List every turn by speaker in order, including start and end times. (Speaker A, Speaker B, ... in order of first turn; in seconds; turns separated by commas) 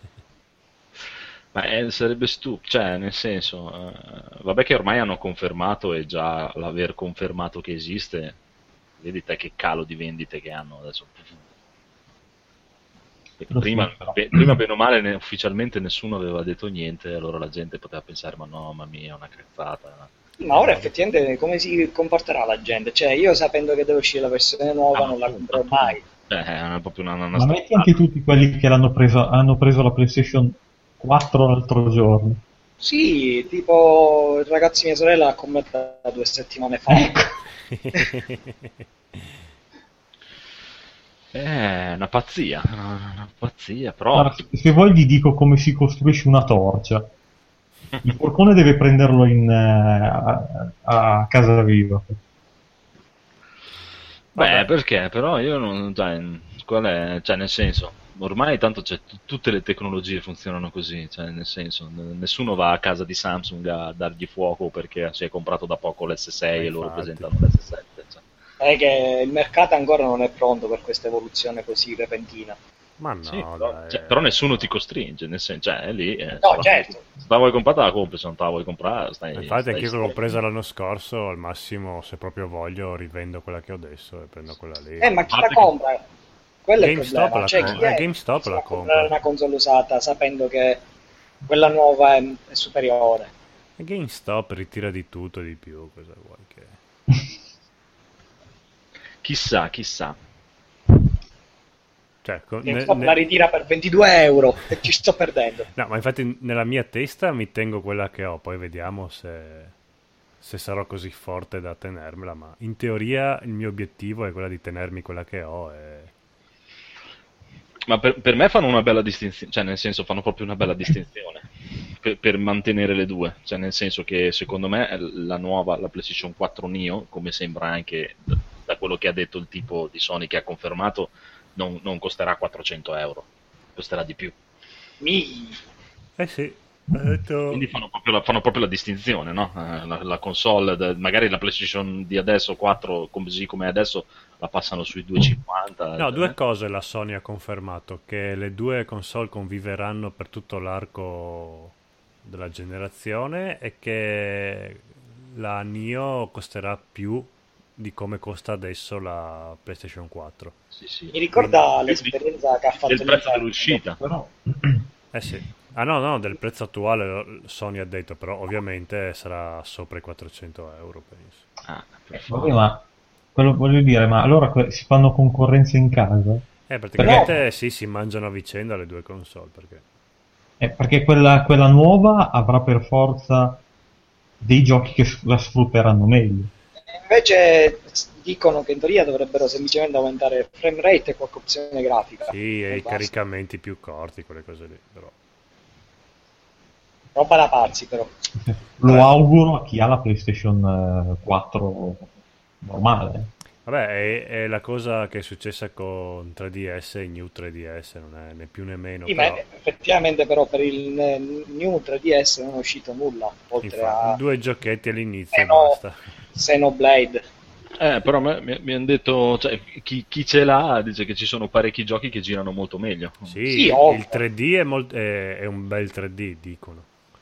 Speaker A: 1.5-8.4, Speaker A: 9.0-11.4, Speaker A: 13.4-20.1, Speaker B: 13.5-14.6, Speaker C: 20.4-26.0, Speaker D: 20.5-20.8, Speaker A: 24.9-28.0, Speaker B: 27.3-32.4, Speaker C: 32.8-37.1, Speaker B: 36.9-37.3, Speaker D: 37.7-38.7, Speaker A: 41.3-44.5, Speaker B: 44.1-47.1, Speaker B: 48.0-52.1, Speaker D: 54.3-54.7, Speaker A: 54.3-68.2, Speaker D: 66.5-67.3, Speaker C: 68.6-72.6, Speaker D: 73.0-74.7, Speaker A: 73.2-80.1, Speaker C: 76.4-77.0, Speaker D: 79.4-85.2, Speaker C: 85.0-86.0, Speaker A: 85.3-85.7, Speaker C: 86.6-90.8, Speaker D: 86.8-89.1, Speaker A: 87.6-87.8, Speaker C: 91.5-93.3, Speaker D: 93.8-96.8, Speaker A: 99.2-100.2, Speaker D: 102.2-103.2, Speaker C: 102.6-105.7, Speaker D: 105.7-109.7, Speaker D: 110.4-116.1, Speaker A: 117.9-134.3, Speaker C: 135.0-135.6, Speaker D: 136.2-137.7, Speaker A: 137.5-146.3, Speaker D: 146.0-160.5, Speaker A: 160.7-162.2, Speaker C: 161.1-163.9, Speaker A: 162.9-164.2, Speaker B: 164.0-164.8, Speaker D: 165.1-171.4, Speaker A: 171.6-172.6, Speaker B: 172.1-172.8, Speaker B: 173.3-176.4, Speaker D: 176.7-179.8, Speaker B: 177.0-177.2, Speaker C: 177.0-177.3, Speaker B: 180.6-183.6, Speaker B: 184.4-186.5, Speaker C: 187.0-193.1, Speaker D: 192.3-195.1, Speaker C: 197.1-198.1, Speaker B: 198.4-202.1, Speaker B: 202.6-203.3, Speaker D: 203.7-209.4, Speaker C: 209.1-214.2, Speaker D: 213.6-216.0, Speaker C: 215.3-215.8, Speaker C: 216.3-217.2, Speaker A: 217.8-223.3, Speaker D: 223.2-226.9, Speaker C: 223.5-224.2